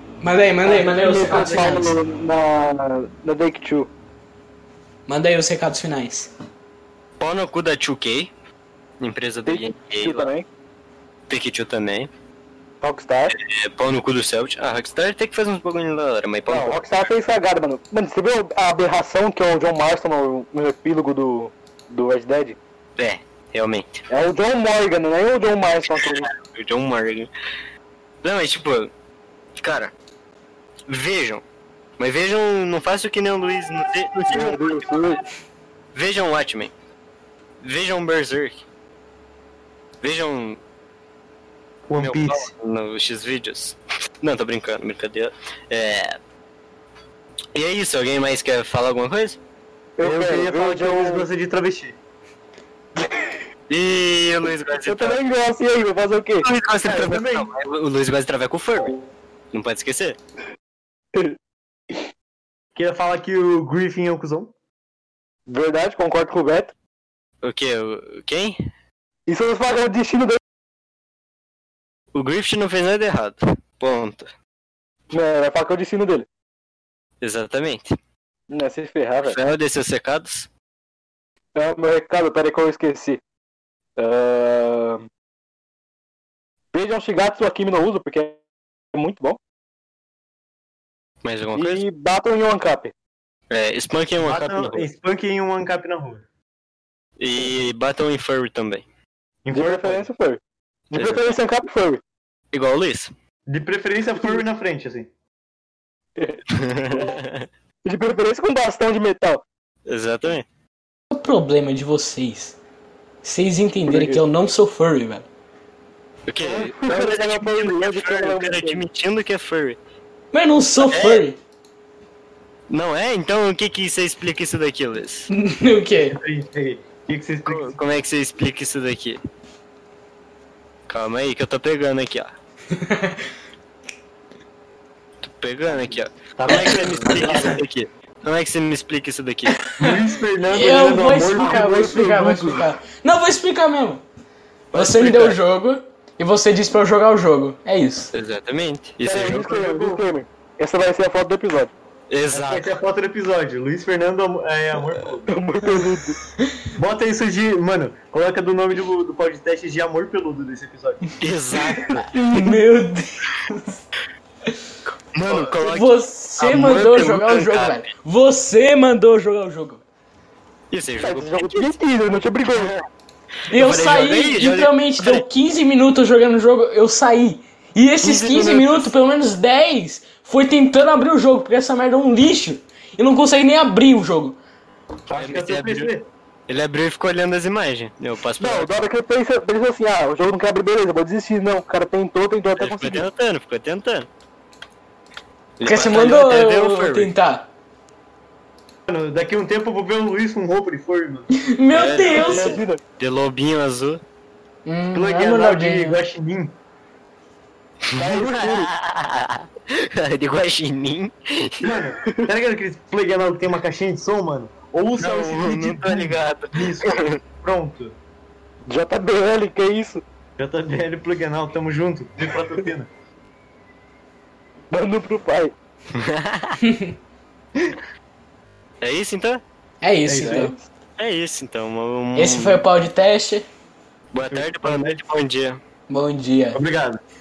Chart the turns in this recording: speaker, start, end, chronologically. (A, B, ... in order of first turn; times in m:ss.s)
0:00.2-0:01.9 A
0:00.6-0:03.9 B
0:01.3-0:01.7 C
0:05.1-0:06.3 A
0:07.2-0:08.3 C
0:09.0-0:10.3 C
0:09.4-0:10.4 B
0:11.3-0:12.1 C
0:12.8-0:13.3 B
0:13.4-0:16.8 C
0:16.5-0:22.6 B
0:23.0-0:23.9 C
0:24.1-0:26.3 B
0:25.9-0:27.3 C
0:28.2-0:28.9 C
0:29.6-0:29.9 C
0:30.9-0:31.4 C
0:32.0-0:34.9 C
0:34.3-0:35.2 B
0:35.9-0:36.7 C
0:37.6-0:38.6 C
0:40.0-0:40.6 C
0:41.9-0:42.5 D
0:42.0-0:46.2 C
0:47.5-0:49.4 C
0:50.0-0:51.2 B
0:50.0-0:52.0 D
0:53.0-0:53.4 B
0:53.7-0:55.2 C
0:54.8-0:56.5 B
0:56.4-0:58.9 C
0:56.8-0:57.5 D
0:59.5-1:00.2 C
1:02.8-1:04.5 D
1:05.5-1:06.7 B
1:07.4-1:08.6 C
1:09.3-1:10.4 B
1:12.1-1:14.3 C
1:15.1-1:16.2 B
1:17.2-1:17.9 C
1:18.5-1:19.4 B
1:19.2-1:20.5 C
1:21.5-1:23.2 B
1:24.0-1:25.1 B
1:26.7-1:28.4 B
1:28.9-1:29.4 B
1:31.2-1:31.8 C
1:31.5-1:32.9 B
1:33.5-1:34.8 C
1:34.2-1:36.2 D
1:37.2-1:38.8 C
1:39.4-1:40.1 D
1:39.5-1:40.4 B
1:40.9-1:42.0 B
1:40.9-1:41.3 C
1:42.5-1:43.1 C
1:43.5-1:45.1 D
1:46.2-1:47.1 B
1:46.5-1:47.5 C
1:47.8-1:49.4 B
1:49.9-1:50.4 C
1:51.1-1:52.6 A
1:53.2-1:55.3 A
1:53.9-1:54.2 B
1:56.3-1:59.8 C
1:56.4-1:58.8 B
2:00.3-2:01.4 A
2:00.8-2:01.2 C
2:02.7-2:05.3 C
2:05.3-2:06.2 A
2:06.1-2:07.8 D
2:07.5-2:09.2 C
2:10.9-2:12.3 C
2:12.7-2:13.2 A
2:15.2-2:19.6 C
2:16.4-2:17.5 D
2:17.2-2:17.5 B
2:19.8-2:21.8 D
2:20.5-2:24.0 A
2:21.2-2:22.6 B
2:24.7-2:25.4 C
2:24.7-2:28.1 A
2:28.1-2:29.6 C
2:29.0-2:31.7 B
2:29.3-2:30.0 D
2:32.1-2:32.7 C
2:32.3-2:35.4 D
2:35.3-2:36.2 B
2:36.8-2:41.1 D
2:41.2-2:42.0 C
2:41.6-2:42.6 B
2:42.0-2:43.8 A
2:45.1-2:47.8 C
2:45.5-2:49.8 A
2:50.7-2:51.7 C
2:51.0-2:52.7 B
2:52.5-2:52.8 C
2:53.5-3:04.4 A
2:53.5-2:55.2 C
2:58.0-2:58.9 B
3:05.1-3:05.9 C
3:05.1-3:06.1 D
3:06.5-3:08.9 C
3:08.4-3:13.0 B
3:12.6-3:14.1 C
3:15.6-3:17.1 C
3:15.6-3:17.5 A
3:18.9-3:21.3 D
3:21.3-3:22.6 A
3:21.7-3:24.0 C
3:22.1-3:22.8 B
3:24.6-3:26.0 A
3:24.9-3:26.5 D
3:27.9-3:31.7 C
3:28.0-3:28.7 B
3:31.6-3:37.9 D
3:35.0-3:37.2 C
3:38.7-3:40.0 B
3:40.4-3:42.9 D
3:44.7-3:45.5 B
3:45.9-3:46.6 C
3:46.6-3:46.9 A
3:48.8-3:49.4 C
3:49.8-3:50.5 A
3:50.0-3:50.5 D
3:50.2-3:50.6 B
3:51.0-3:52.6 C
3:52.2-3:53.4 A
3:54.1-3:55.6 C
3:54.2-3:55.0 D
3:55.9-3:56.6 A
3:56.5-3:57.0 D